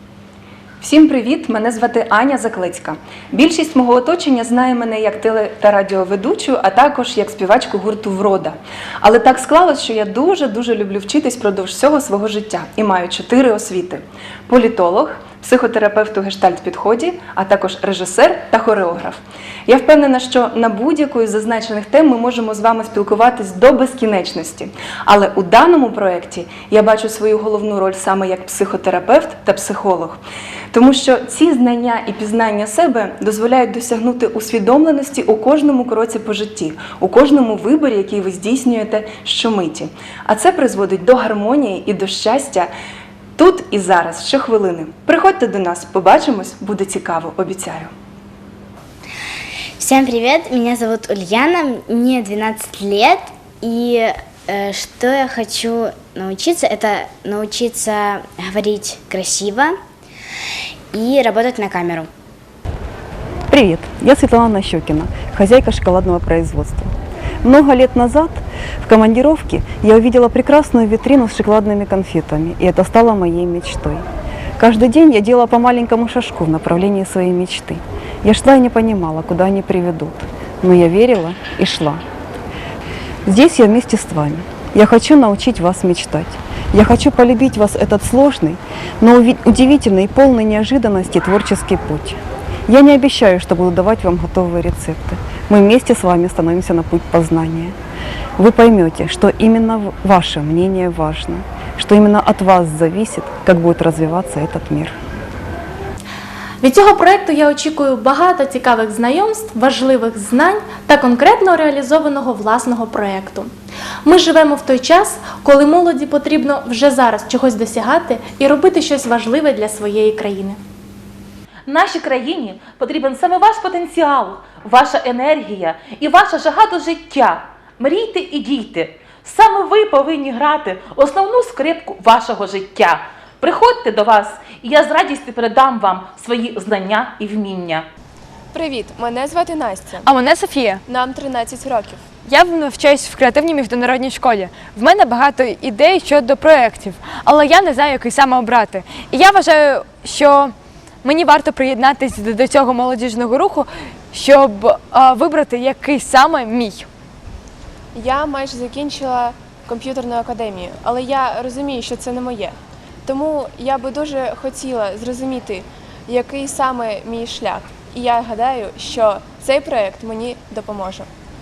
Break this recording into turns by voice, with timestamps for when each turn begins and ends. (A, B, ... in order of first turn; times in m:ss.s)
0:00.8-0:42.7 A
0:43.4-0:47.9 A
0:49.8-0:59.8 B
1:00.9-1:02.1 B
1:03.5-1:14.0 C
1:14.6-1:22.0 C
1:23.2-1:37.7 C
1:38.4-1:44.9 C
1:46.6-1:53.5 D
1:54.0-2:00.6 D
2:01.7-2:17.8 E
2:18.5-2:20.1 F
2:20.0-2:20.8 G
2:20.9-2:22.0 F
2:22.2-2:36.9 G
2:37.9-2:51.1 F